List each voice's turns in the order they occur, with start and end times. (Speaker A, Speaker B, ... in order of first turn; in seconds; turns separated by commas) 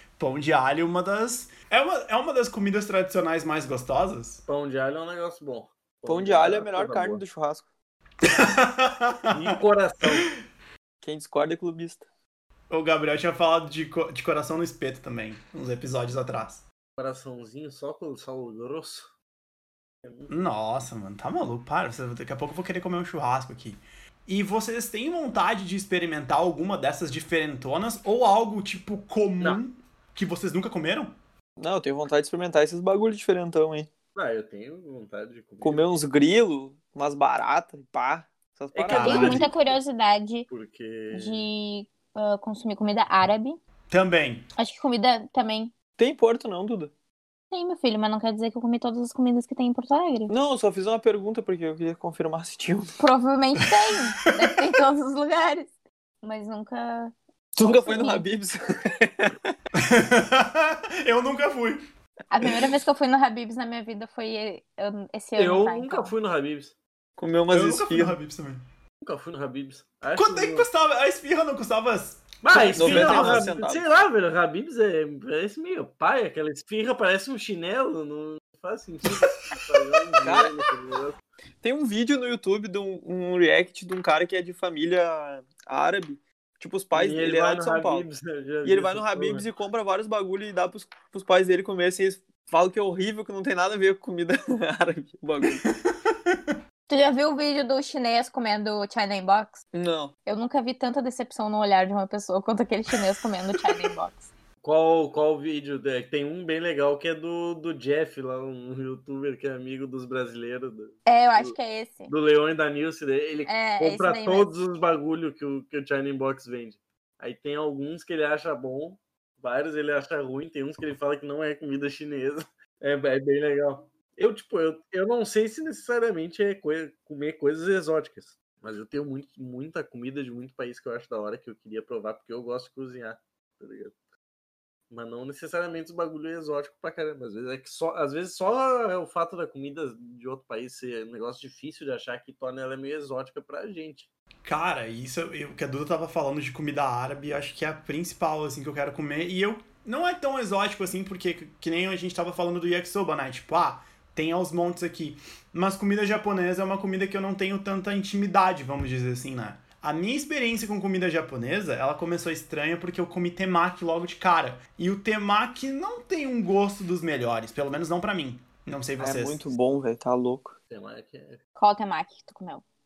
Speaker A: 0.2-4.4, Speaker B: 4.5-7.2, Speaker C: 6.0-7.7, Speaker A: 8.2-10.3, Speaker B: 9.3-10.3, Speaker C: 11.0-12.0, Speaker A: 12.7-16.6, Speaker B: 17.0-19.1, Speaker B: 20.0-20.4, Speaker A: 20.3-31.1, Speaker C: 31.6-33.9, Speaker B: 34.1-35.8, Speaker C: 35.6-39.5, Speaker B: 38.7-39.6, Speaker A: 38.9-39.5, Speaker D: 38.9-40.5, Speaker B: 40.5-41.5, Speaker D: 41.1-43.6, Speaker A: 43.9-44.5, Speaker D: 44.6-45.7, Speaker C: 46.0-46.9, Speaker D: 47.5-50.3, Speaker C: 50.3-53.0, Speaker D: 53.0-55.7, Speaker D: 56.2-58.2, Speaker C: 57.5-59.5, Speaker A: 59.8-61.8, Speaker D: 62.3-66.1, Speaker B: 65.4-66.7, Speaker C: 67.2-68.2, Speaker A: 67.5-68.6, Speaker B: 69.0-70.7, Speaker A: 70.2-73.5, Speaker B: 72.4-81.2, Speaker C: 72.5-73.8, Speaker C: 80.2-80.5, Speaker C: 81.6-88.0, Speaker B: 86.9-89.5, Speaker C: 88.6-95.6, Speaker A: 95.4-96.6, Speaker D: 96.9-99.6, Speaker C: 99.7-100.1, Speaker D: 100.2-104.3, Speaker B: 104.6-111.5, Speaker D: 111.0-112.1, Speaker B: 112.1-133.9, Speaker D: 113.5-114.5, Speaker B: 134.9-144.1, Speaker A: 144.4-169.4, Speaker C: 169.0-170.5, Speaker B: 170.7-171.4, Speaker D: 171.6-172.6